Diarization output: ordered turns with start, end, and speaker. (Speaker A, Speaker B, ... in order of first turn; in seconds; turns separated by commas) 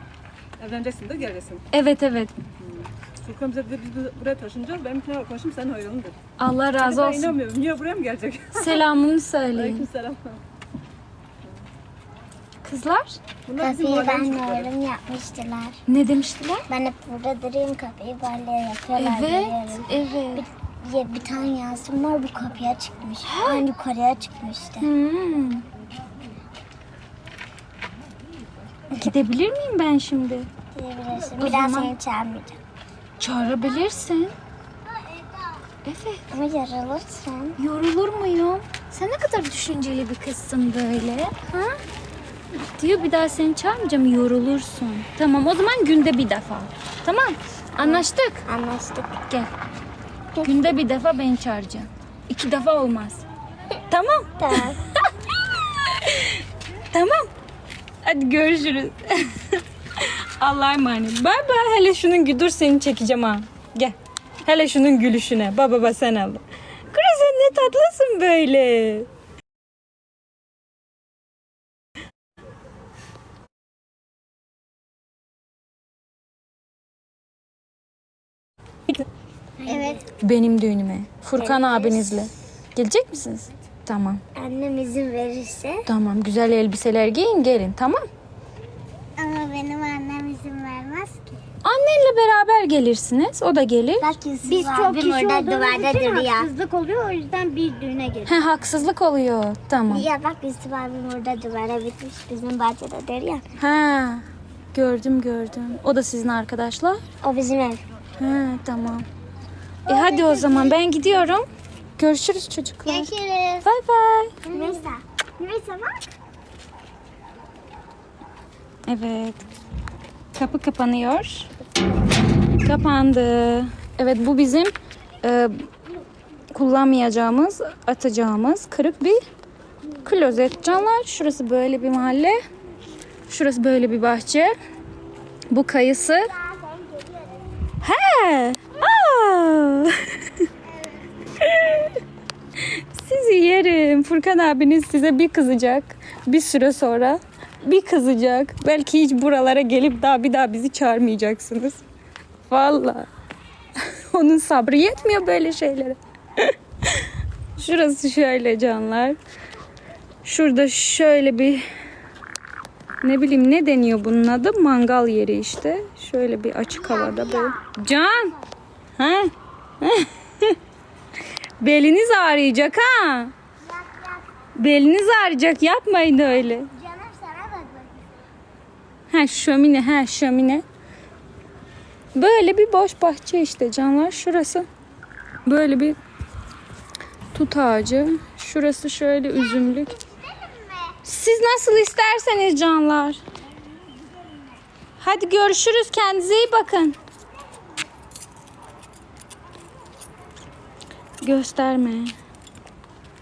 Speaker A: 0.6-1.7, Speaker B: 1.7-2.3, Speaker A: 2.6-6.2, Speaker B: 6.4-7.3, Speaker A: 6.8-8.8, Speaker B: 8.5-9.9, Speaker A: 9.5-10.4, Speaker B: 12.6-13.2, Speaker A: 13.5-14.7, Speaker C: 13.6-15.8, Speaker B: 15.9-16.6, Speaker C: 16.7-24.9, Speaker B: 19.0-20.4, Speaker B: 23.2-23.7, Speaker B: 24.8-25.6, Speaker B: 29.0-30.5, Speaker C: 30.7-32.6, Speaker B: 31.4-31.9, Speaker B: 33.2-34.4, Speaker B: 35.9-36.3, Speaker C: 36.3-37.6, Speaker B: 37.6-41.5, Speaker B: 42.5-48.5, Speaker C: 47.8-49.2, Speaker B: 50.4-53.2, Speaker B: 53.9-54.6, Speaker C: 54.4-54.8, Speaker B: 55.5-57.3, Speaker B: 58.0-69.1, Speaker C: 79.6-80.0, Speaker D: 79.7-80.0, Speaker B: 80.2-84.2, Speaker C: 81.4-82.3, Speaker C: 84.3-85.9, Speaker B: 85.9-88.0, Speaker C: 89.2-91.3, Speaker B: 91.6-94.1, Speaker C: 94.0-96.5, Speaker D: 94.4-98.4, Speaker B: 98.3-100.1, Speaker C: 99.9-103.5, Speaker B: 103.6-107.0, Speaker C: 107.2-107.8, Speaker B: 108.2-109.0, Speaker B: 109.9-111.5, Speaker C: 109.9-110.8, Speaker B: 112.0-113.1, Speaker D: 112.9-113.6, Speaker C: 113.0-113.3, Speaker B: 113.6-114.4, Speaker C: 114.5-116.0, Speaker D: 114.5-114.8, Speaker B: 118.9-119.5, Speaker B: 120.3-121.5, Speaker B: 122.6-125.7, Speaker B: 126.5-129.2, Speaker B: 130.0-132.4, Speaker B: 133.3-134.5, Speaker B: 135.5-136.4, Speaker C: 136.4-137.3, Speaker B: 137.8-140.1, Speaker B: 141.4-142.0, Speaker B: 142.7-151.8, Speaker B: 152.5-153.1, Speaker B: 154.1-156.5, Speaker B: 157.6-159.2, Speaker B: 160.2-161.7, Speaker B: 163.0-168.3, Speaker C: 166.8-167.6, Speaker B: 169.0-170.6, Speaker B: 171.6-173.3, Speaker C: 173.8-174.1, Speaker B: 174.6-176.7, Speaker C: 176.7-178.1, Speaker B: 179.1-180.6, Speaker B: 182.2-184.7, Speaker B: 185.4-186.0, Speaker B: 187.3-190.0, Speaker C: 190.1-190.9, Speaker B: 191.0-193.2, Speaker B: 195.0-197.0, Speaker B: 201.2-202.1